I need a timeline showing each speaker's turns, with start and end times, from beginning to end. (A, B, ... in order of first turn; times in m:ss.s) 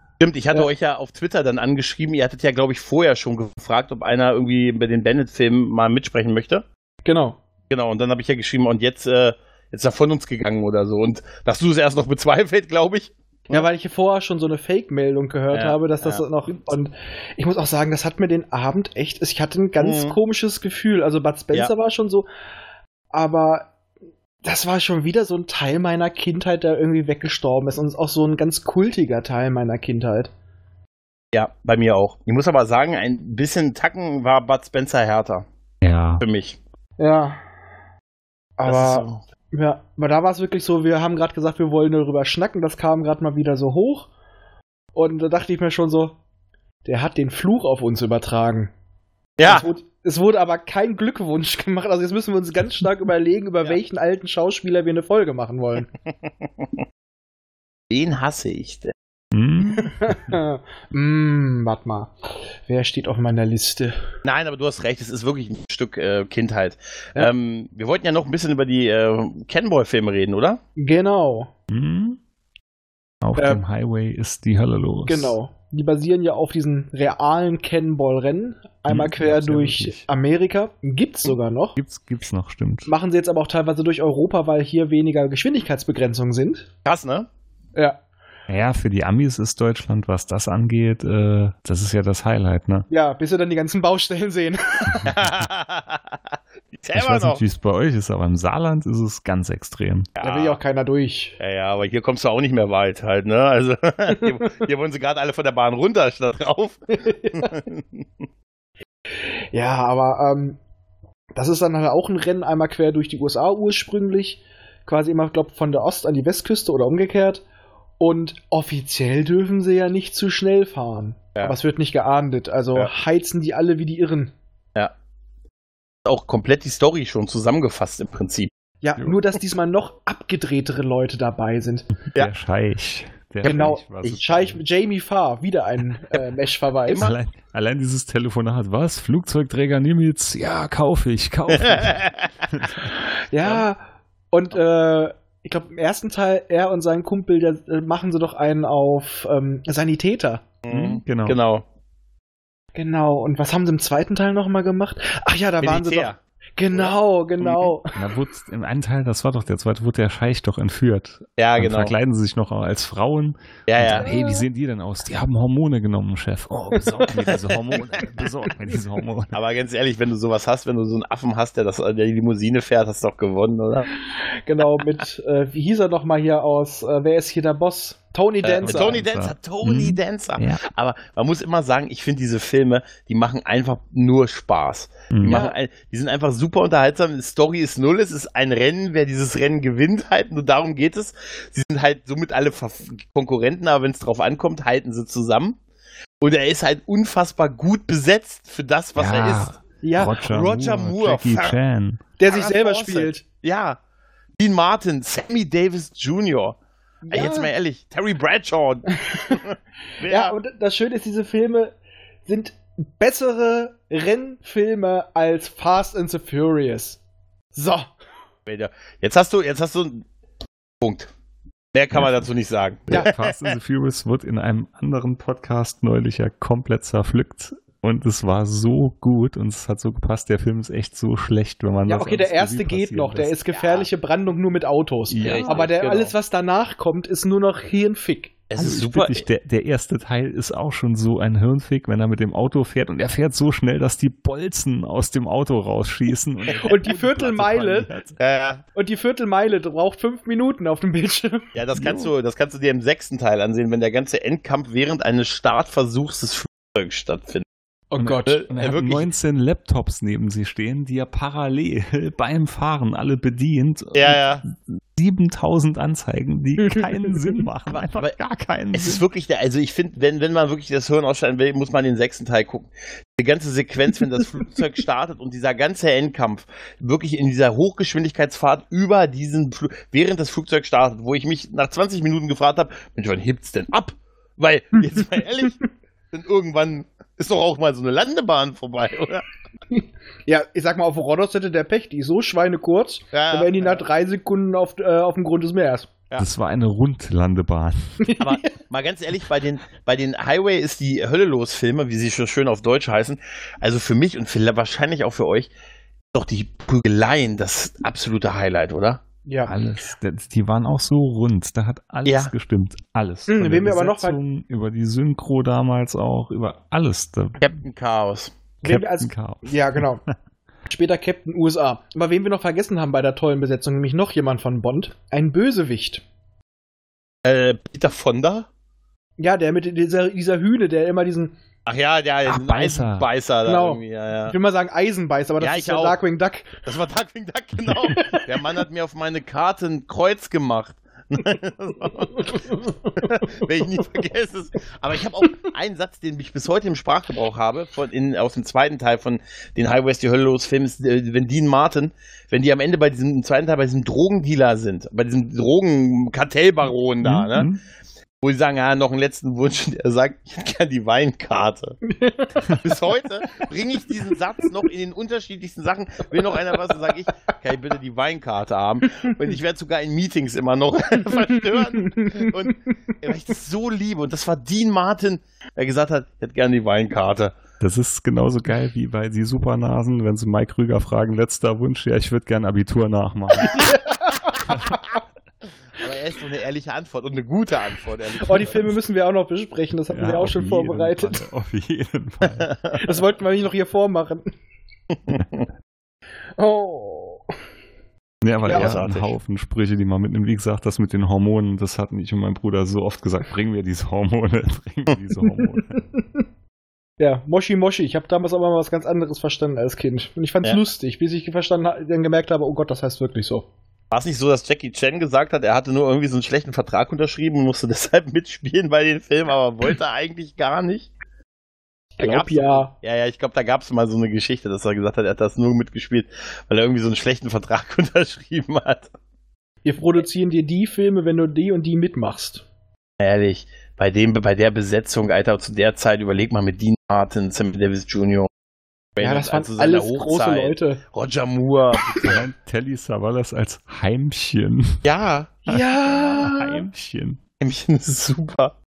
0:00.2-0:06.6 A
0:07.0-0:07.4 B
0:07.7-0:13.6 A
0:13.5-0:22.2 B
0:15.5-0:16.2 A
0:19.8-0:20.2 A
0:23.1-0:23.7 B
0:24.4-0:30.3 B
0:31.3-0:35.4 A
0:35.8-0:36.2 C
0:36.2-0:36.6 A
0:37.0-0:37.4 B
0:38.6-0:44.1 B
0:38.7-0:39.2 A
0:44.9-0:46.2 B
0:46.8-0:48.7 B
0:49.4-0:49.6 A
0:49.4-0:55.9 B
0:56.2-0:56.8 A
0:57.9-0:58.9 A
0:59.3-1:00.3 C
0:59.7-1:02.1 B
1:02.6-1:04.0 B
1:04.2-1:10.6 A
1:10.8-1:11.5 B
1:11.7-1:12.2 C
1:13.2-1:15.3 C
1:13.4-1:13.6 B
1:15.0-1:21.8 B
1:18.9-1:20.0 C
1:21.8-1:22.9 C
1:22.8-1:26.7 B
1:26.8-1:27.3 A
1:28.5-1:32.9 C
1:32.9-1:35.1 B
1:35.0-1:37.4 A
1:36.9-1:40.1 C
1:40.2-1:40.6 A
1:40.2-1:41.4 B
1:41.4-1:48.2 A
1:44.1-1:44.4 B
1:47.0-1:47.6 B
1:49.5-1:50.6 B
1:51.3-1:57.4 B
1:58.0-2:04.3 B
2:06.0-2:08.5 A
2:08.8-2:11.9 B
2:12.1-2:14.6 C
2:13.4-2:14.2 A
2:13.4-2:17.0 B
2:16.9-2:17.2 A
2:17.0-2:22.9 C
2:21.5-2:22.3 A
2:23.3-2:30.4 B
2:30.6-2:31.6 A
2:30.7-2:31.4 C
2:32.8-2:37.9 B
2:35.6-2:36.2 A
2:36.7-2:37.7 A
2:37.9-2:49.4 C
2:41.4-2:41.9 A
2:43.7-2:44.1 A
2:43.9-2:44.4 B
2:47.1-2:48.0 A
2:49.3-2:53.9 A
2:54.4-2:59.0 B
2:58.4-3:15.6 A
2:58.6-3:00.6 C
3:05.1-3:05.4 C
3:05.2-3:05.5 B
3:16.2-3:19.5 A
3:19.0-3:22.0 C
3:19.8-3:20.2 B
3:20.2-3:21.5 A
3:22.2-3:23.2 B
3:22.3-3:23.8 A
3:24.4-3:26.6 A
3:27.0-3:27.5 B
3:27.1-3:30.4 A
3:28.9-3:29.4 B
3:30.0-3:37.0 B
3:37.5-3:37.9 B
3:38.4-3:40.0 A
3:40.8-3:41.1 A
3:41.7-3:43.6 A
3:41.9-3:42.2 C
3:42.9-3:53.4 C
3:51.9-3:58.3 B
3:53.5-3:53.9 A
3:55.1-3:55.7 C
3:55.2-3:56.1 A
3:58.5-3:59.2 A
3:58.6-4:08.2 C
4:06.6-4:07.9 B
4:08.2-4:08.6 A
4:08.7-4:11.5 B
4:11.5-4:17.4 A
4:11.8-4:12.1 C
4:17.9-4:18.5 B
4:18.0-4:29.0 C
4:18.2-4:19.1 A
4:23.9-4:24.4 A
4:26.6-4:27.4 B
4:27.7-4:28.1 A
4:28.7-4:49.2 A
4:49.7-4:55.9 B
4:53.1-4:53.8 A
4:56.2-4:58.0 C
4:58.0-4:58.4 B
4:58.2-5:05.5 A
5:06.1-5:09.0 A
5:09.2-5:09.5 B
5:09.4-5:17.5 C
5:12.0-5:12.3 A
5:13.3-5:14.2 B
5:17.4-5:18.3 A
5:18.6-5:20.0 B
5:18.6-5:19.8 C
5:20.7-5:26.0 B
5:27.2-5:28.5 A
5:29.2-5:31.3 B
5:31.6-5:34.4 A
5:32.2-5:33.1 C
5:33.4-5:36.6 B
5:35.4-5:36.0 A
5:36.6-5:57.5 A
5:37.9-5:38.2 B
5:42.5-5:43.2 B
5:57.0-5:57.6 C
5:58.2-6:01.8 A
6:01.8-6:02.6 B
6:02.5-6:17.4 A
6:11.3-6:12.5 B
6:17.6-6:23.7 C
6:23.5-6:24.5 B
6:24.5-6:24.7 C
6:25.7-6:28.7 A
6:28.2-6:31.2 B
6:29.9-6:32.6 C
6:32.8-6:34.3 B
6:34.9-6:35.4 A
6:36.4-6:37.2 B
6:38.2-6:45.8 C
6:38.4-6:38.8 B
6:38.5-6:39.1 A
6:45.4-6:46.2 B
6:47.0-6:53.5 B
6:53.9-7:00.9 A
7:02.0-7:02.7 B
7:02.0-7:08.9 A
7:09.6-7:12.4 B
7:13.0-7:18.3 A
7:19.0-7:22.2 A
7:19.0-7:20.8 B
7:22.0-7:24.8 C
7:24.8-7:25.4 A
7:25.4-7:26.6 B
7:25.5-7:27.2 C
7:27.4-7:28.5 A